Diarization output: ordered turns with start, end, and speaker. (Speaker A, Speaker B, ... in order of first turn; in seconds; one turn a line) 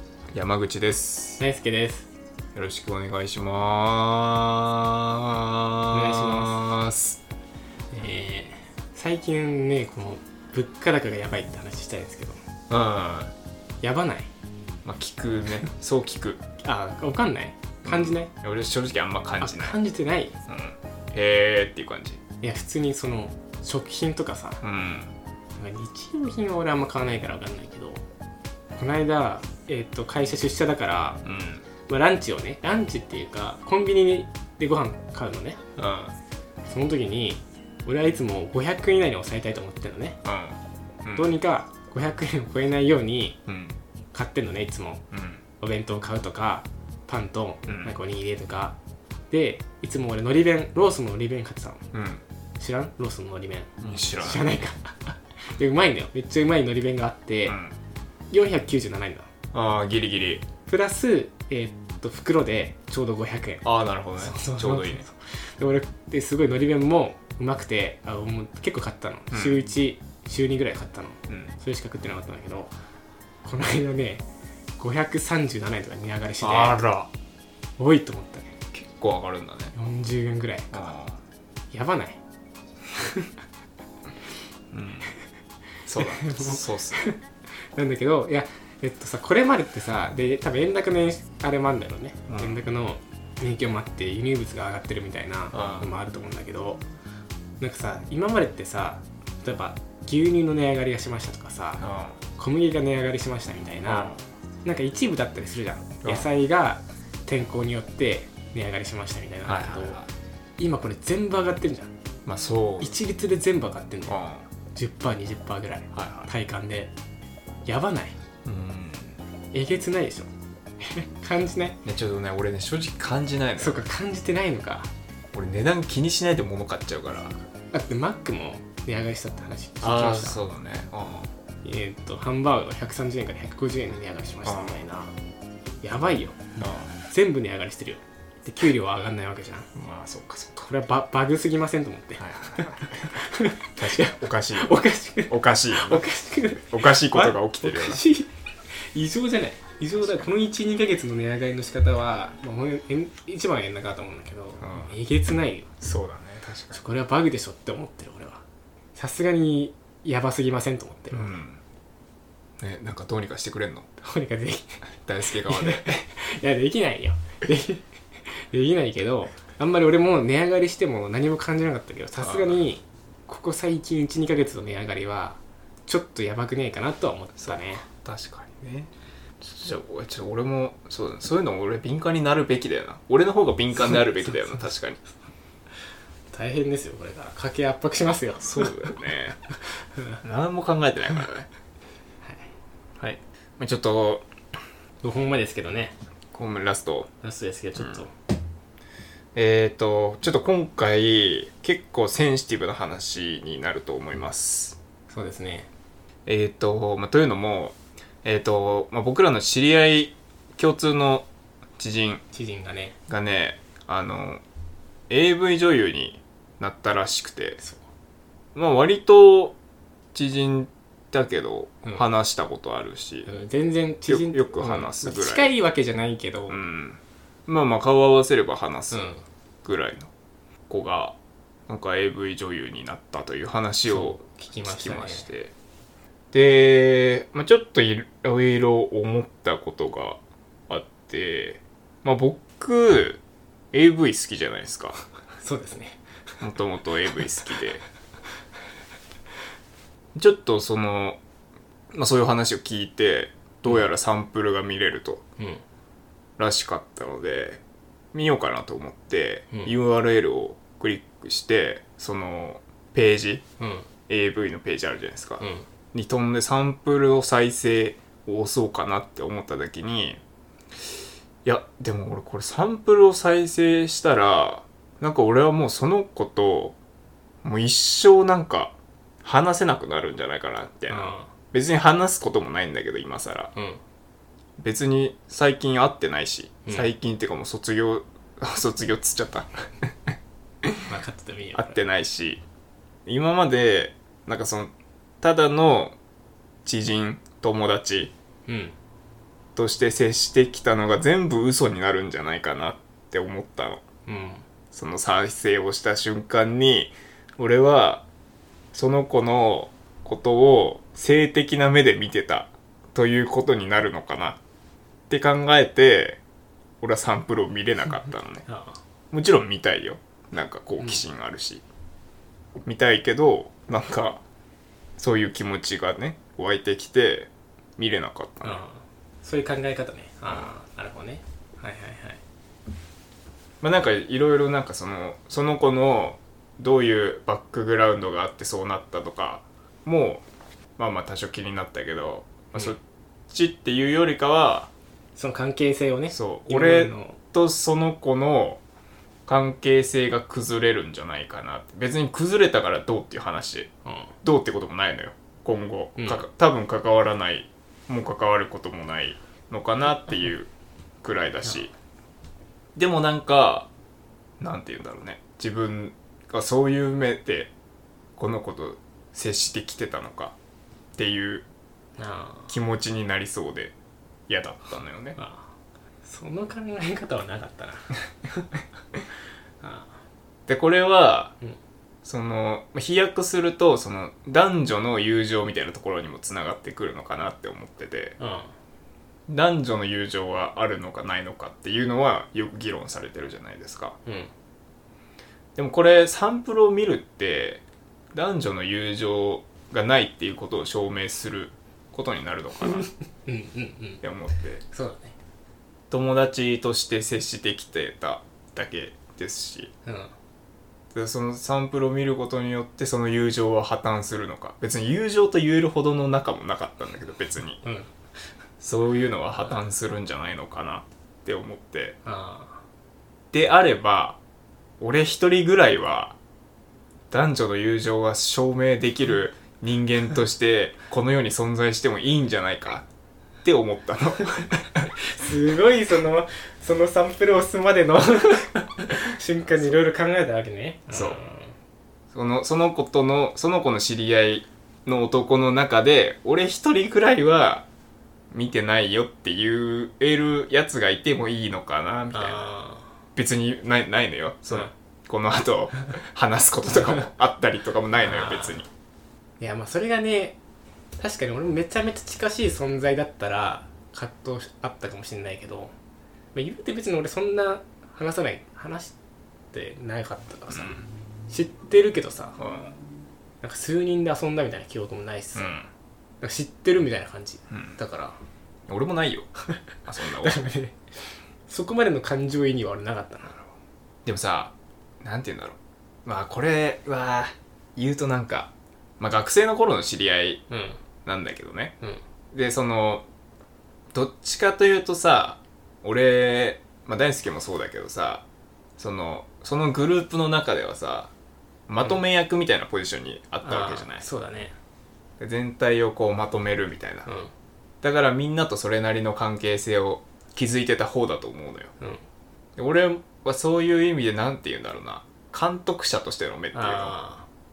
Speaker A: 0.3-1.4
Speaker B: 1.4-2.1
Speaker A: 2.5-7.2
Speaker B: 5.9-6.6
Speaker B: 7.9-12.4
Speaker A: 12.7-13.3
Speaker B: 13.8-14.3
Speaker A: 14.8-16.4
Speaker B: 16.6-18.3
Speaker A: 17.8-19.8
Speaker B: 19.4-20.4
Speaker A: 20.5-22.2
Speaker B: 22.4-24.6
Speaker A: 24.6-25.1
Speaker B: 25.6-28.0
Speaker B: 28.8-31.2
Speaker A: 31.2-31.6
Speaker B: 31.9-35.6
Speaker A: 35.8-36.1
Speaker B: 36.7-40.2
Speaker A: 40.2-41.4
Speaker B: 41.1-43.4
Speaker A: 43.5-43.8
Speaker B: 44.1-45.0
Speaker A: 45.1-45.4
Speaker B: 45.6-48.8
Speaker A: 47.7-47.9
Speaker B: 49.3-51.9
Speaker A: 51.9-52.2
Speaker B: 52.6-57.6
Speaker A: 53.8-54.6
Speaker A: 57.5-57.8
Speaker B: 58.3-59.3
Speaker A: 59.5-60.5
Speaker B: 60.6-63.6
Speaker A: 63.6-65.0
Speaker B: 64.2-72.7
Speaker A: 69.3-69.6
Speaker A: 71.3-71.5
Speaker B: 73.4-74.2
Speaker B: 74.8-76.8
Speaker A: 76.4-77.1
Speaker B: 77.8-78.5
Speaker A: 78.7-79.7
Speaker B: 79.7-80.9
Speaker A: 80.7-81.2
Speaker B: 81.7-82.2
Speaker B: 83.0-83.3
Speaker A: 84.7-85.1
Speaker A: 85.8-87.1
Speaker B: 86.0-87.2
Speaker B: 87.7-96.8
Speaker A: 92.3-92.6
Speaker A: 95.5-95.9
Speaker B: 97.6-104.1
Speaker A: 101.8-102.2
Speaker A: 103.8-104.2
Speaker B: 104.6-110.0
Speaker A: 109.4-110.1
Speaker B: 110.6-111.9
Speaker A: 112.2-112.9
Speaker B: 112.8-114.2
Speaker A: 114.1-114.5
Speaker B: 114.7-116.9
Speaker A: 115.9-116.3
Speaker B: 117.7-118.2
Speaker A: 118.4-119.2
Speaker B: 119.5-120.3
Speaker B: 120.8-121.8
Speaker A: 121.8-123.9
Speaker B: 123.6-124.9
Speaker A: 125.3-127.4
Speaker B: 127.7-130.4
Speaker A: 129.8-131.3
Speaker B: 131.6-135.1
Speaker A: 134.4-134.8
Speaker B: 135.8-136.4
Speaker A: 136.6-136.9
Speaker B: 137.1-139.7
Speaker A: 139.7-140.7
Speaker B: 140.7-155.7
Speaker A: 142.2-143.2
Speaker A: 143.8-146.0
Speaker A: 146.7-148.0
Speaker A: 154.6-154.9
Speaker A: 155.8-156.8
Speaker B: 156.7-158.4
Speaker B: 158.9-161.4
Speaker A: 161.1-161.6
Speaker A: 162.6-163.9
Speaker B: 164.0-164.8
Speaker A: 165.1-166.0
Speaker B: 165.3-177.8
Speaker A: 172.2-172.7
Speaker A: 177.3-185.0
Speaker B: 183.7-184.6
Speaker B: 186.3-189.0
Speaker A: 188.4-189.5
Speaker A: 190.2-191.5
Speaker A: 193.0-194.2
Speaker B: 195.0-195.9
Speaker A: 196.3-197.1
Speaker B: 197.2-198.1
Speaker A: 199.3-204.8
Speaker B: 205.1-205.7
Speaker A: 206.2-211.3
Speaker A: 211.8-212.2
Speaker B: 212.3-212.9
Speaker A: 213.1-214.4
Speaker A: 215.1-217.6
Speaker A: 218.5-219.6
Speaker A: 220.1-223.3
Speaker B: 223.2-226.6
Speaker A: 224.1-225.5
Speaker A: 226.5-230.1
Speaker B: 228.9-229.2
Speaker A: 230.7-231.2
Speaker A: 231.7-235.5
Speaker B: 233.9-235.3
Speaker A: 236.3-243.2
Speaker A: 243.7-245.0
Speaker B: 245.4-246.0
Speaker A: 246.4-247.8
Speaker A: 250.1-251.2
Speaker A: 251.9-255.2
Speaker A: 256.4-257.6
Speaker A: 258.1-263.4
Speaker B: 263.6-263.9
Speaker A: 264.1-270.2
Speaker B: 265.4-265.7
Speaker A: 271.4-276.8
Speaker A: 277.4-283.5
Speaker B: 280.9-281.3
Speaker B: 283.5-283.8
Speaker A: 284.6-290.1
Speaker B: 290.9-291.8
Speaker A: 291.5-292.4
Speaker A: 293.1-295.9
Speaker A: 296.6-298.1
Speaker B: 298.5-298.7
Speaker A: 299.6-303.8
Speaker B: 304.1-304.4
Speaker A: 304.7-308.0
Speaker A: 308.7-314.4
Speaker A: 315.1-316.2
Speaker A: 316.8-318.4
Speaker B: 318.4-318.8
Speaker A: 319.1-321.6
Speaker A: 322.6-324.2
Speaker A: 325.0-328.6
Speaker B: 328.4-332.2
Speaker A: 330.2-330.5
Speaker A: 333.6-340.2
Speaker A: 340.8-342.8
Speaker A: 343.3-344.7
Speaker B: 345.2-347.2
Speaker A: 346.1-348.6
Speaker A: 349.2-353.7
Speaker B: 353.9-354.1
Speaker A: 354.2-360.5
Speaker B: 356.0-356.2
Speaker A: 361.0-361.7
Speaker A: 362.8-363.7
Speaker A: 364.4-367.5
Speaker A: 368.2-370.3
Speaker A: 370.9-371.4
Speaker B: 372.0-372.5
Speaker A: 372.5-373.7
Speaker A: 374.3-375.2
Speaker B: 375.1-375.5
Speaker B: 376.0-378.5
Speaker B: 379.6-379.9
Speaker A: 380.5-381.3
Speaker A: 382.0-388.2
Speaker B: 388.2-388.5
Speaker A: 389.3-394.0
Speaker B: 394.1-394.3
Speaker A: 395.6-397.6
Speaker A: 398.1-402.9
Speaker B: 402.8-404.0
Speaker A: 404.0-404.6
Speaker B: 404.7-405.1
Speaker A: 405.9-409.7
Speaker B: 409.9-410.1
Speaker A: 410.9-417.6
Speaker B: 417.6-417.9
Speaker A: 418.6-422.0
Speaker B: 422.0-422.6
Speaker A: 423.3-424.2
Speaker A: 424.8-426.1
Speaker A: 427.1-432.9
Speaker A: 433.4-434.9
Speaker B: 435.1-441.5
Speaker A: 439.5-439.8
Speaker A: 440.9-441.2
Speaker A: 442.1-447.6
Speaker A: 448.3-452.5
Speaker B: 452.1-452.9
Speaker A: 453.1-458.7
Speaker B: 457.9-458.6
Speaker B: 459.4-460.4
Speaker B: 461.0-465.7
Speaker B: 466.3-468.9
Speaker B: 469.5-472.4
Speaker A: 470.5-470.8
Speaker A: 472.4-472.8
Speaker B: 473.4-475.5
Speaker A: 475.3-475.7
Speaker B: 476.2-478.2
Speaker A: 477.5-477.8
Speaker A: 478.7-479.3
Speaker B: 479.5-480.8
Speaker A: 479.9-480.4
Speaker B: 481.5-483.4
Speaker A: 484.1-490.4
Speaker B: 490.5-490.8
Speaker A: 491.0-491.7
Speaker A: 492.3-493.1
Speaker A: 493.9-498.2
Speaker A: 498.8-501.1
Speaker A: 501.7-504.1
Speaker B: 503.4-504.5
Speaker A: 505.2-507.1
Speaker B: 507.1-507.3
Speaker A: 507.8-511.7
Speaker A: 512.6-517.0
Speaker B: 516.5-517.2